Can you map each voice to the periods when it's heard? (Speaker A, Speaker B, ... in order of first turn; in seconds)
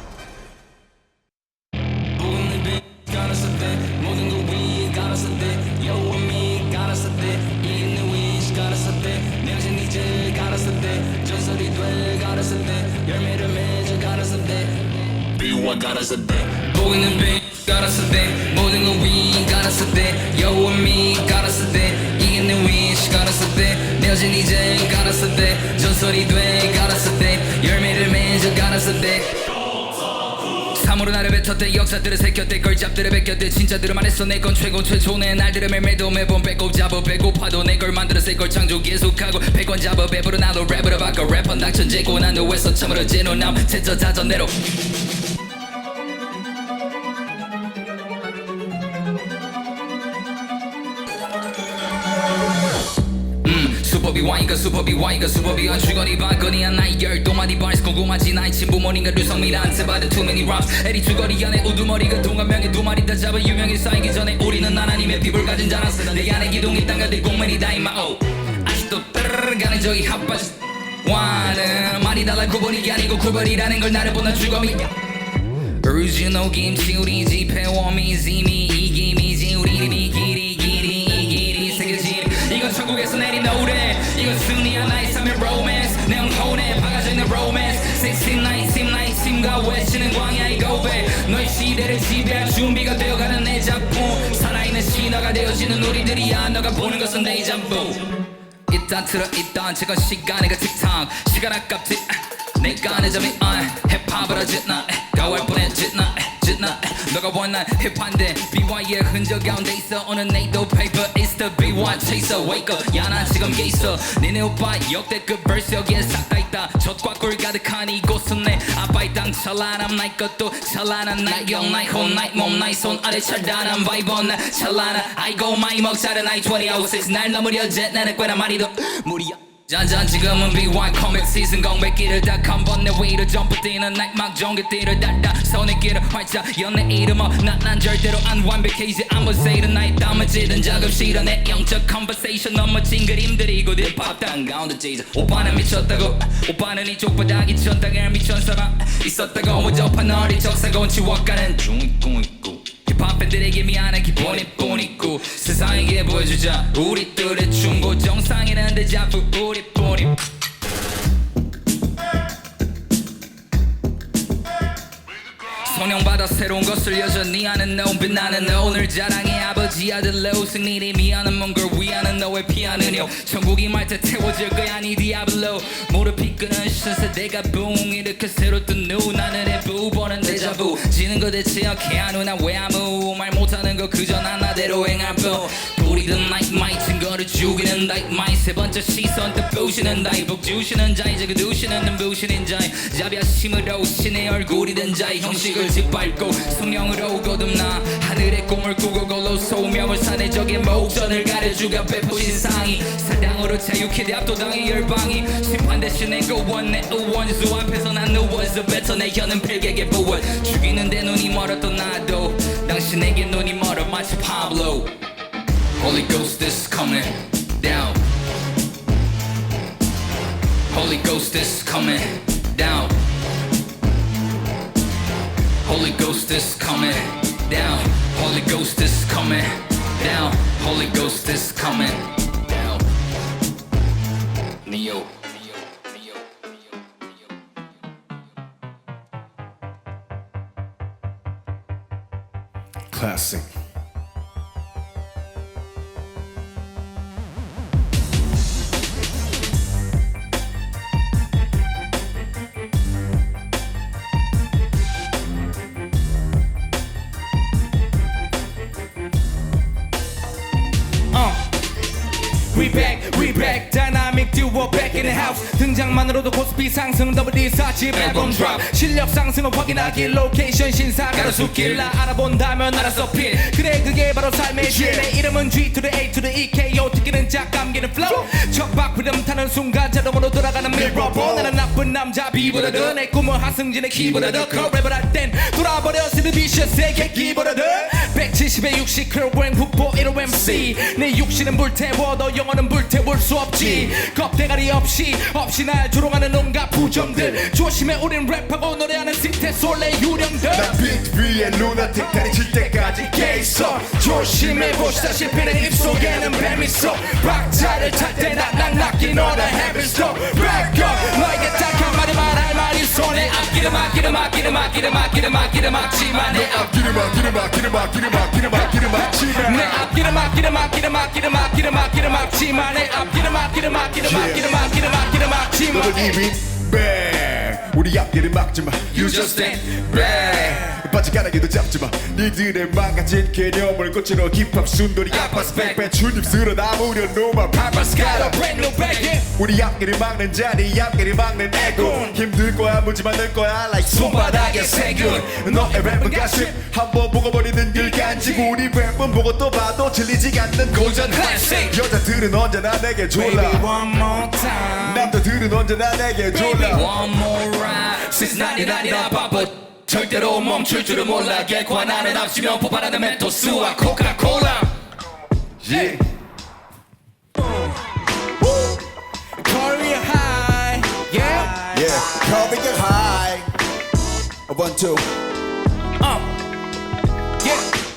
Speaker A: 2.1-29.3, 30.7-44.5, 53.4-74.9, 75.8-98.0, 98.7-160.2, 165.5-214.9, 215.8-218.0, 220.7-222.9, 225.6-232.8, 234.6-236.2, 267.9-268.6, 269.7-270.1, 271.1-271.9, 272.7-273.4, 282.3-282.9, 283.9-284.7, 313.3-314.1, 328.9-330.7, 335.1-335.9, 337.5-339.2, 343.8-345.2, 350.7-351.6, 356.7-364.7
Speaker B: 242.9-243.5, 264.6-265.4, 274.6-275.1, 280.7-281.6, 287.0-287.9, 290.2-290.7, 293.5-293.9, 296.8-297.4, 300.5-308.1, 308.9-310.4, 316.3-319.9, 324.0-324.6, 325.7-329.6, 330.1-338.4, 339.2-353.6, 354.8-356.9, 365.6-366.0, 371.7-373.5, 374.5-375.0
Speaker C: 261.1-261.4, 262.5-300.9, 301.6-316.6, 319.2-326.2, 329.0-330.6, 337.9-339.3, 341.5-342.2, 344.2-346.6, 347.7-348.6, 351.1-351.8, 353.1-355.1, 356.3-356.9, 357.9-359.5, 360.1-362.4, 363.4-364.5, 368.4-368.7, 369.3-372.1, 376.0-376.2, 377.4-377.7